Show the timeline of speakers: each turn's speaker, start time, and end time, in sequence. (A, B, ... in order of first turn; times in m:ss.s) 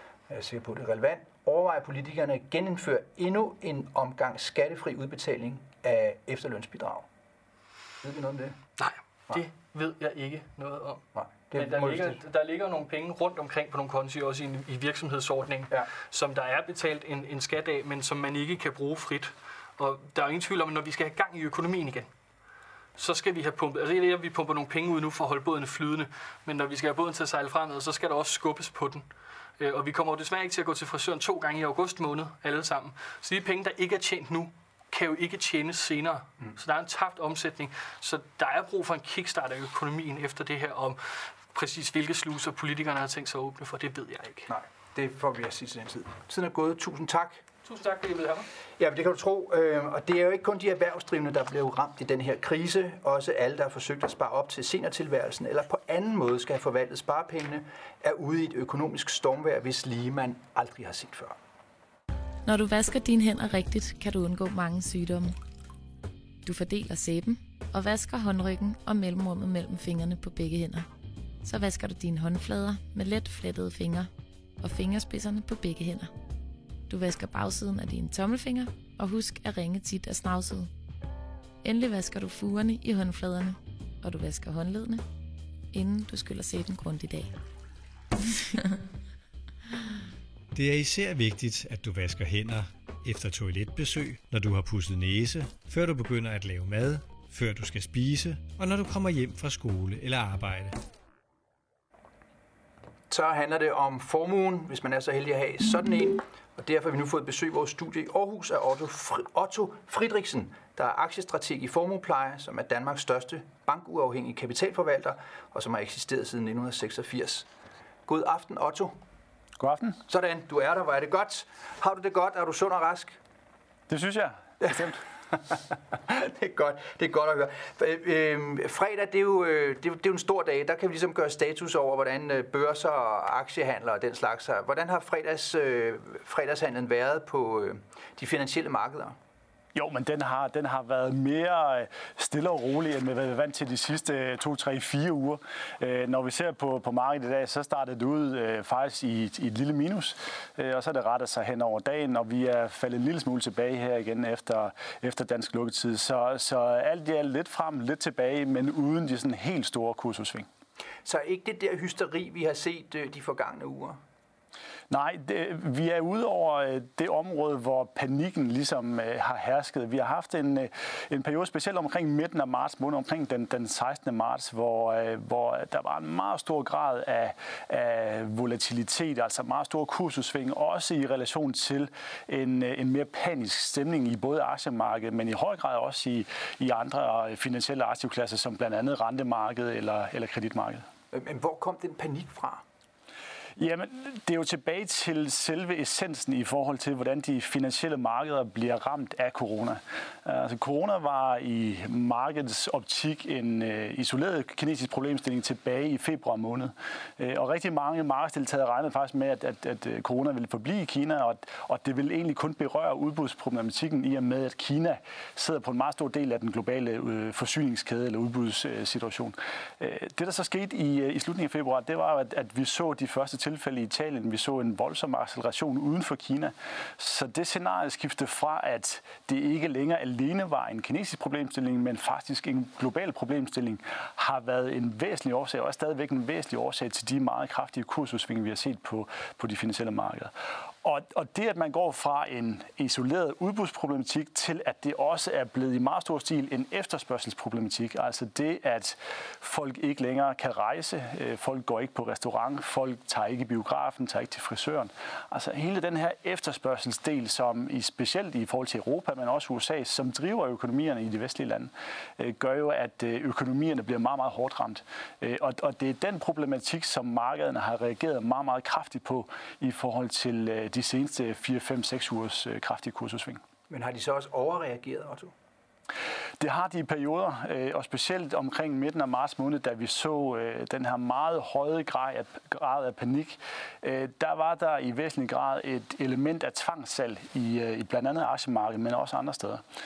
0:00.3-0:07.1 A
0:08.0-0:08.6 A
0:08.8-0:22.1 B
0:11.2-0:12.2 A
0:23.0-0:29.1 B
0:29.6-0:44.5 B
0:44.5-0:47.4 A
0:47.6-0:48.5 B
0:48.8-1:01.4 A
1:02.5-1:05.4 C
1:06.4-1:10.9 C
1:11.4-1:14.1 C
1:14.6-1:16.1 C
1:16.9-1:20.7 C
1:21.6-1:25.0 C
1:25.7-1:27.4 C
1:28.5-1:28.8 C
1:30.5-1:40.8 D
1:43.1-1:57.5 A
1:58.1-1:59.0 A
1:59.6-2:00.0 E
2:00.1-2:03.2 A
2:03.9-2:05.0 E
2:05.9-2:19.2 A
2:19.8-2:40.5 E
2:41.0-2:44.0 A
2:44.9-3:10.8 E
3:11.1-3:12.6 A
3:13.6-4:00.3 E
4:00.8-4:33.4 E
4:33.7-4:35.3 A
4:36.4-4:49.6 E